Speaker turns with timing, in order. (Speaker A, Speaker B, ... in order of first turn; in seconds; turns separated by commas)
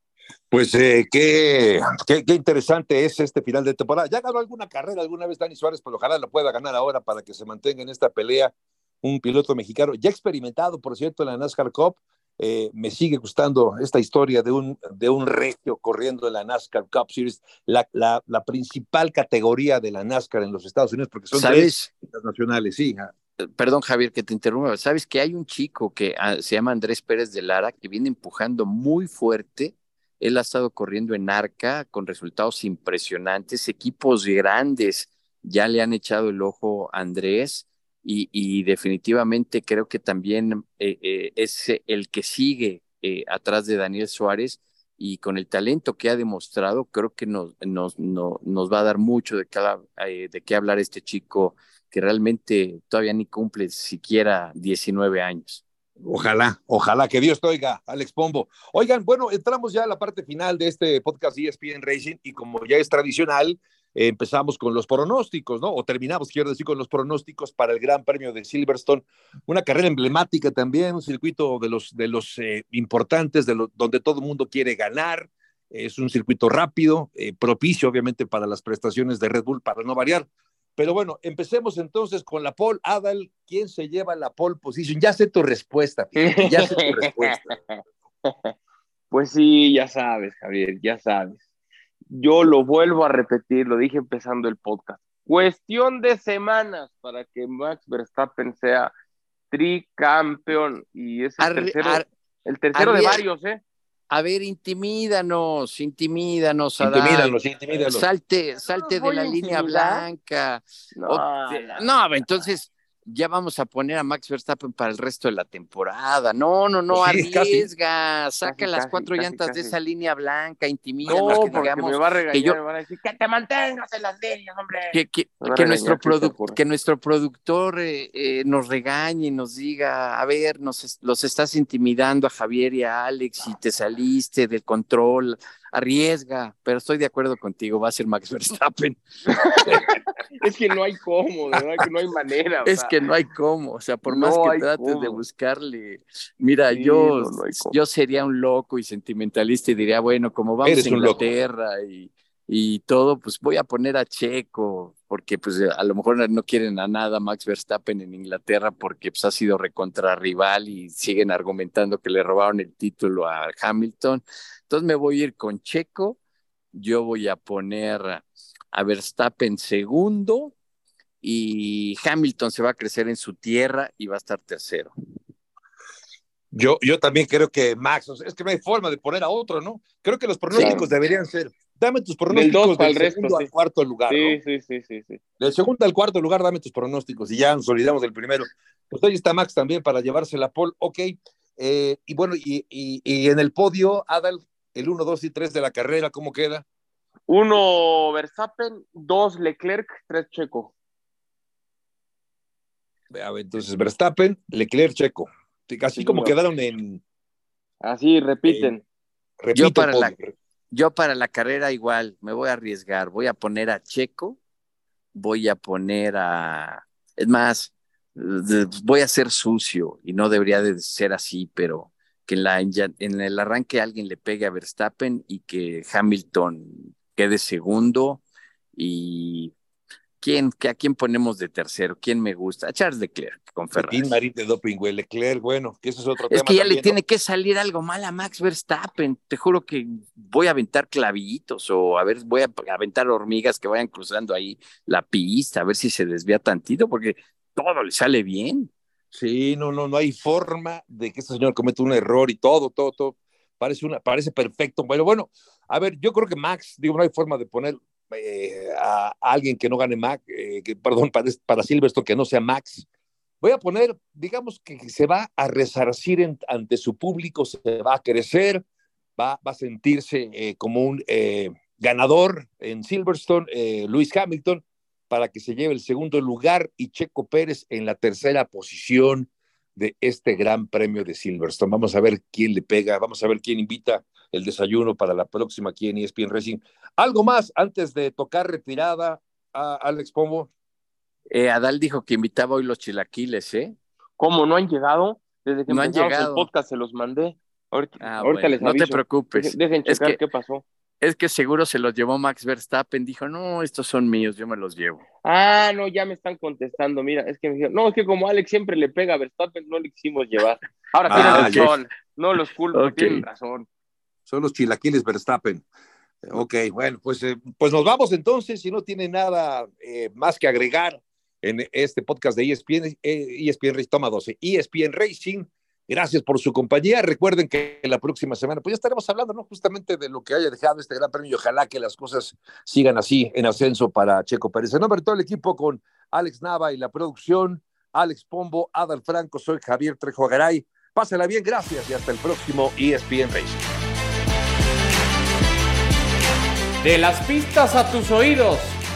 Speaker A: 0.5-23.1, Speaker B: 21.3-21.9, Speaker B: 23.6-55.6, Speaker A: 56.0-87.4, Speaker C: 86.2-88.5, Speaker C: 89.1-91.4, Speaker C: 92.1-98.9, Speaker C: 99.5-103.6, Speaker B: 101.4-102.1, Speaker B: 102.7-103.2, Speaker B: 104.1-122.6, Speaker A: 106.8-108.0, Speaker C: 108.7-110.0, Speaker C: 111.0-111.9, Speaker A: 116.9-117.7, Speaker C: 118.4-119.7, Speaker C: 121.0-126.6, Speaker A: 121.1-121.6, Speaker B: 124.9-139.0, Speaker C: 139.3-142.9, Speaker B: 142.7-166.2, Speaker C: 144.1-145.2, Speaker C: 146.7-147.8, Speaker A: 150.6-151.3, Speaker B: 166.7-170.5, Speaker B: 171.2-174.9, Speaker A: 176.5-184.4, Speaker C: 180.5-180.9, Speaker C: 182.3-183.5, Speaker C: 184.1-185.2, Speaker A: 185.4-196.7, Speaker C: 197.3-200.7, Speaker A: 203.1-207.0, Speaker C: 206.0-206.3, Speaker C: 207.8-208.8, Speaker A: 208.5-208.7, Speaker A: 209.4-210.3, Speaker B: 209.5-210.1, Speaker B: 210.7-214.4, Speaker B: 215.2-228.2, Speaker B: 228.8-229.5, Speaker B: 230.2-234.2, Speaker A: 233.8-237.0, Speaker B: 236.3-248.7, Speaker A: 249.1-262.9, Speaker A: 263.4-268.6, Speaker A: 269.2-290.5, Speaker B: 291.3-293.8, Speaker C: 294.2-300.6, Speaker B: 295.7-296.5, Speaker B: 298.0-300.2, Speaker B: 301.0-305.0, Speaker C: 305.2-313.7, Speaker A: 311.1-311.7, Speaker B: 311.1-311.8, Speaker B: 312.7-313.2, Speaker A: 314.3-315.6, Speaker A: 316.2-343.7, Speaker D: 346.8-348.8